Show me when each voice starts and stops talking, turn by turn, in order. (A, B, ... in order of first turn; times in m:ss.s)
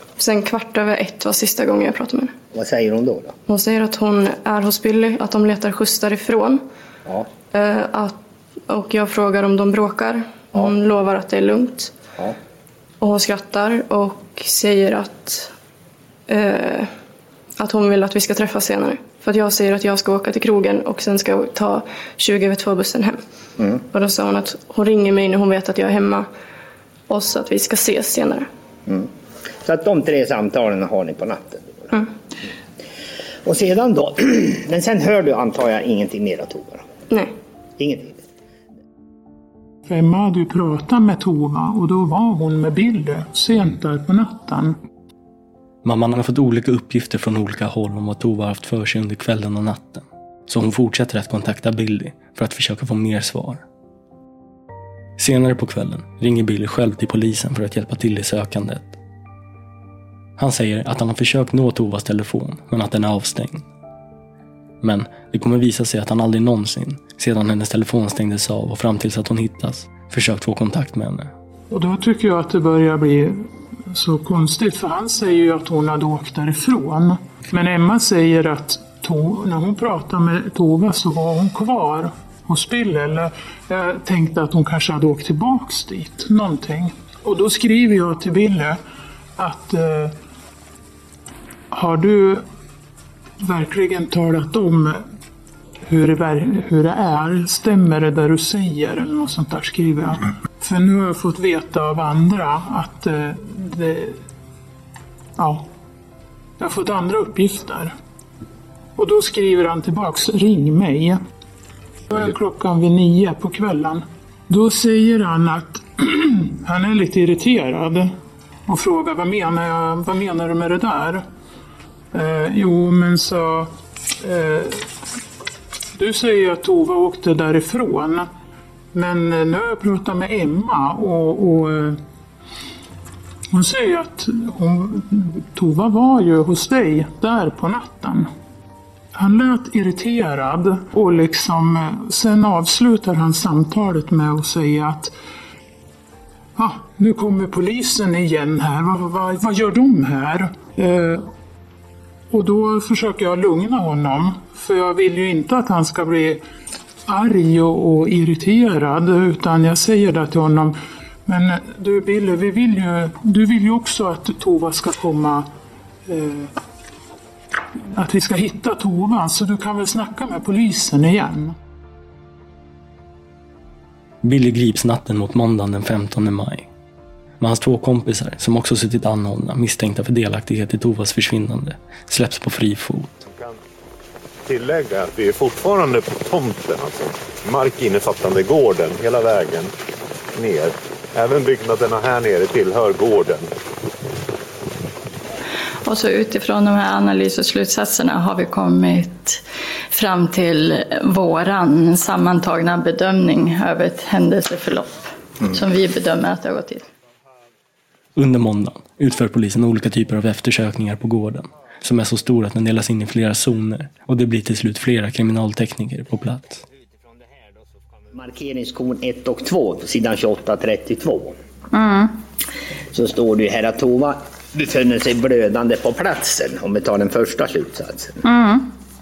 0:00.2-0:02.3 A
0:02.5-0:03.3 B
0:03.5-0:06.6 A
0:07.5-0:12.0 A
0:13.0-0:15.5 A
0:16.3-0:16.9 A
0:17.6-0:23.2 A
0:23.9-0:26.3 A
0:27.1-0:28.5 A
0:29.6-0:31.9 B
0:33.4-0:36.8 B
0:37.8-0:38.2 B
0:39.9-0:44.8 C
0:45.8-0:53.6 D
0:55.2-0:59.0 D
1:00.4-1:03.6 D
1:04.8-1:11.3 D
1:11.7-1:28.8 C
1:29.4-1:30.1 C
1:31.7-1:32.4 C
1:33.4-1:35.0 C
1:35.8-1:44.2 C
1:45.4-1:45.7 C
1:46.6-1:47.9 C
1:49.0-1:51.2 C
1:52.1-1:58.1 C
1:58.7-2:01.2 C
2:02.1-2:04.9 C
2:06.0-2:08.3 C
2:08.9-2:12.0 C
2:13.5-2:18.3 C
2:19.1-2:25.1 C
2:26.6-2:31.3 C
2:32.3-2:36.4 C
2:37.1-2:40.7 C
2:41.2-2:45.5 C
2:46.1-2:46.5 C
2:47.9-2:51.6 C
2:54.2-2:56.7 D
2:57.4-3:03.2 D
3:03.2-3:03.6 E
3:04.5-3:09.7 E
3:10.4-3:13.5 E
3:15.9-3:19.4 F
3:19.9-3:26.8 F
3:28.2-3:36.6 D
3:38.1-3:41.4 B
3:41.7-3:42.1 F
3:42.9-3:48.2 B
3:48.2-3:48.6 F